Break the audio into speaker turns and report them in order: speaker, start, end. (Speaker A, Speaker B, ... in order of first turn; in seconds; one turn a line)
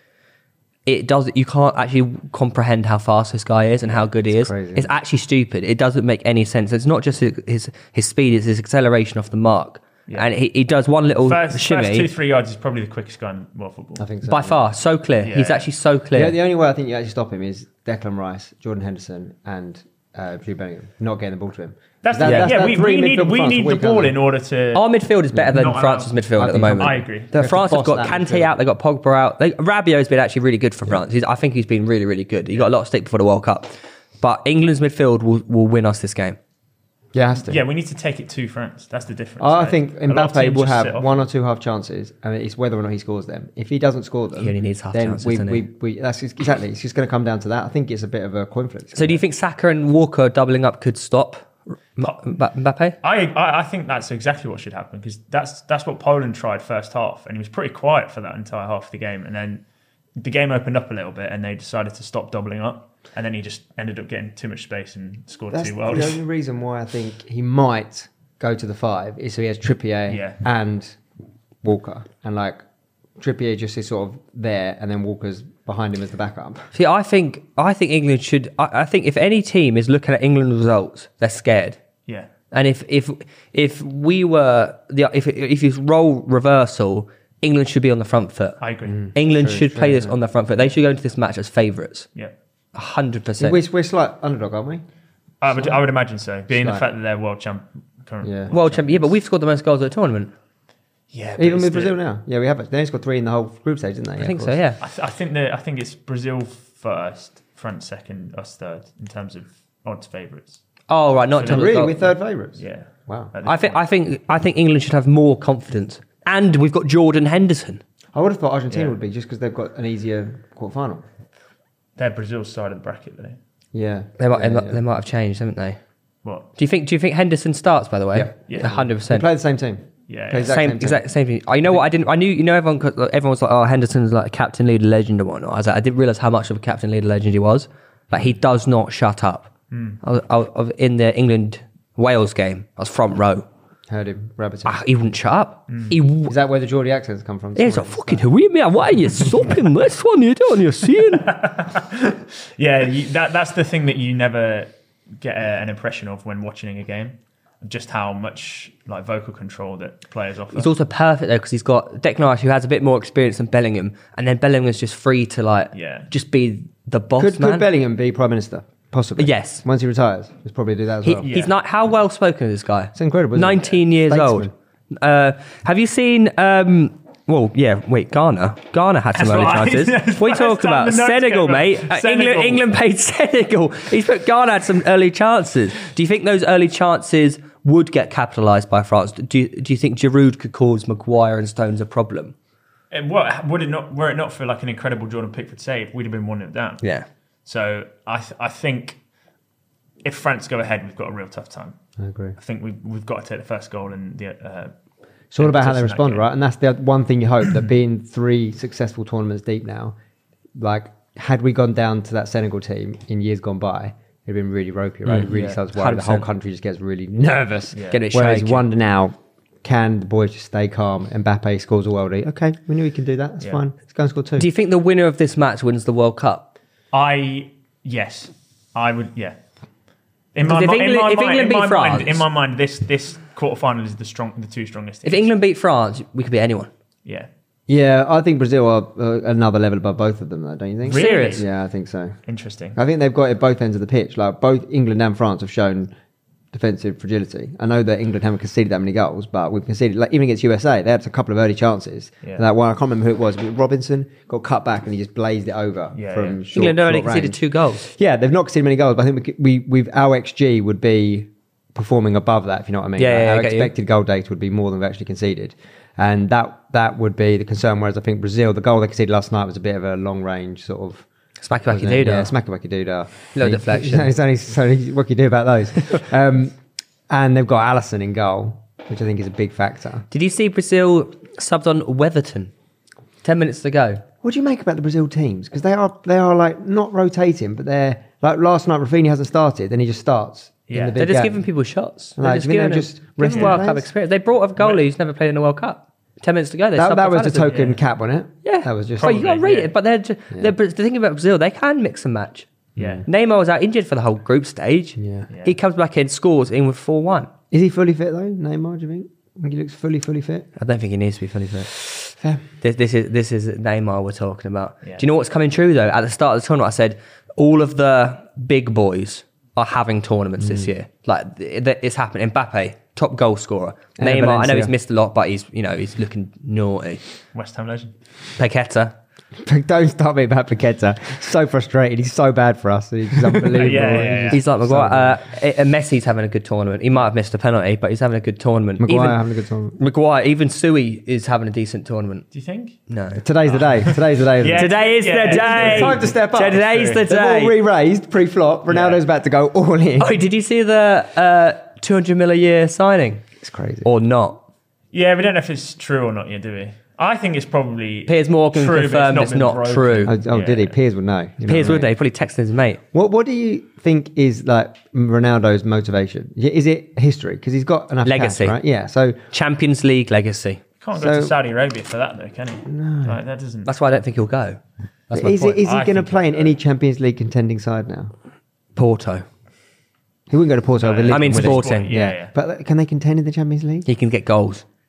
Speaker A: 0.9-12.1
Speaker B: 4.3-4.9
Speaker C: 11.2-14.1
Speaker B: 14.0-14.6
Speaker A: 14.3-16.4
Speaker C: 15.2-15.7
Speaker B: 16.1-24.2
Speaker C: 22.0-24.9
Speaker A: 22.2-22.6
Speaker A: 24.7-36.4
Speaker C: 25.4-27.3
Speaker B: 26.4-28.6
Speaker B: 37.1-37.6
Speaker C: 37.4-41.2
Speaker B: 39.4-49.2
Speaker A: 44.4-45.6
Speaker A: 48.9-53.0
Speaker C: 53.0-59.6
Speaker C: 60.2-66.2
Speaker B: 65.5-71.0
Speaker C: 70.1-70.4
Speaker B: 71.6-72.6
Speaker B: 73.2-76.7
Speaker A: 76.7-81.8
Speaker A: 82.5-88.6
Speaker C: 88.6-89.1
Speaker B: 88.9-90.2
Speaker A: 89.1-92.1
Speaker A: 92.8-93.6
Speaker B: 93.4-94.8
Speaker C: 95.4-99.1
Speaker B: 96.5-96.8
Speaker B: 98.2-98.5
Speaker A: 98.5-100.3
Speaker C: 101.1-102.0
Speaker B: 101.4-104.6
Speaker A: 104.2-104.8
Speaker C: 104.8-110.6
Speaker A: 110.9-112.0
Speaker C: 111.4-112.0
Speaker B: 111.4-113.3
Speaker C: 112.6-113.8
Speaker A: 113.5-117.8
Speaker B: 118.1-121.0
Speaker C: 118.7-119.0
Speaker C: 122.0-123.4
Speaker B: 123.7-124.8
Speaker A: 124.2-125.8
Speaker C: 126.2-126.5
Speaker A: 126.6-129.3
Speaker B: 128.1-131.1
Speaker C: 128.5-128.7
Speaker C: 130.1-130.7
Speaker A: 130.4-139.5
Speaker C: 139.7-140.0
Speaker A: 140.0-143.5
Speaker B: 143.9-144.8
Speaker A: 144.7-146.3
Speaker B: 146.3-148.3
Speaker A: 147.6-151.3
Speaker C: 151.1-160.7
Speaker A: 160.5-167.7
Speaker C: 165.7-166.1
Speaker B: 167.2-171.3
Speaker A: 169.2-169.6
Speaker A: 171.0-192.3
Speaker C: 171.2-171.5
Speaker B: 172.9-174.5
Speaker C: 179.1-182.6
Speaker C: 192.9-196.8
Speaker C: 197.5-199.0
Speaker C: 200.0-201.8
Speaker B: 202.0-202.4
Speaker C: 202.4-204.7
Speaker B: 205.3-209.9
Speaker C: 205.4-206.3
Speaker B: 210.6-224.5
Speaker A: 215.1-216.3
Speaker C: 215.3-215.6
Speaker C: 217.8-218.0
Speaker A: 217.9-218.7
Speaker A: 224.4-226.5
Speaker C: 226.9-229.4
Speaker C: 230.3-235.3
Speaker A: 230.4-232.2
Speaker A: 235.1-236.7
Speaker B: 237.7-242.2
Speaker C: 240.8-241.5
Speaker A: 240.9-241.4
Speaker C: 242.3-242.8
Speaker B: 242.8-245.9
Speaker B: 246.5-271.1
Speaker C: 255.9-256.4
Speaker A: 256.5-257.9
Speaker A: 263.0-263.7
Speaker A: 271.4-272.3
Speaker B: 271.7-276.6
Speaker A: 273.4-274.1
Speaker B: 277.1-280.1
Speaker A: 280.1-282.5
Speaker A: 283.2-284.0
Speaker B: 284.2-291.4
Speaker C: 290.7-291.0
Speaker A: 291.0-297.7
Speaker B: 292.2-293.9
Speaker C: 293.3-293.6
Speaker B: 296.8-299.2
Speaker A: 298.4-302.5
Speaker C: 299.0-299.7
Speaker B: 302.8-303.1
Speaker C: 302.8-303.1
Speaker A: 303.1-307.3
Speaker B: 305.0-305.3
Speaker C: 305.3-305.6
Speaker B: 307.5-310.5
Speaker A: 310.6-311.7
Speaker A: 312.6-327.0
Speaker B: 324.0-324.7
Speaker C: 327.3-327.9
Speaker A: 328.4-328.9
Speaker B: 329.4-335.2
Speaker C: 333.5-334.4
Speaker A: 334.3-339.2
Speaker B: 338.8-339.8
Speaker A: 339.8-342.2
Speaker C: 342.3-342.8
Speaker A: 342.9-343.2
Speaker B: 343.2-350.1
Speaker C: 343.5-347.0
Speaker A: 344.5-347.6
Speaker C: 348.7-349.0
Speaker A: 350.0-353.2
Speaker B: 353.4-353.9
Speaker A: 353.8-354.4
Speaker C: 354.9-360.8
Speaker A: 358.1-360.1
Speaker B: 360.1-361.9
Speaker A: 361.4-362.8
Speaker B: 362.9-369.2
Speaker A: 368.1-368.6
Speaker A: 369.3-370.6
Speaker C: 370.8-373.7
Speaker B: 370.9-371.4
Speaker B: 372.7-373.2
Speaker A: 373.6-375.6
Speaker B: 375.1-378.1
Speaker C: 375.5-376.6
Speaker A: 378.8-379.2
Speaker B: 380.3-383.9
Speaker C: 380.8-382.3
Speaker A: 381.1-381.9
Speaker A: 383.9-384.6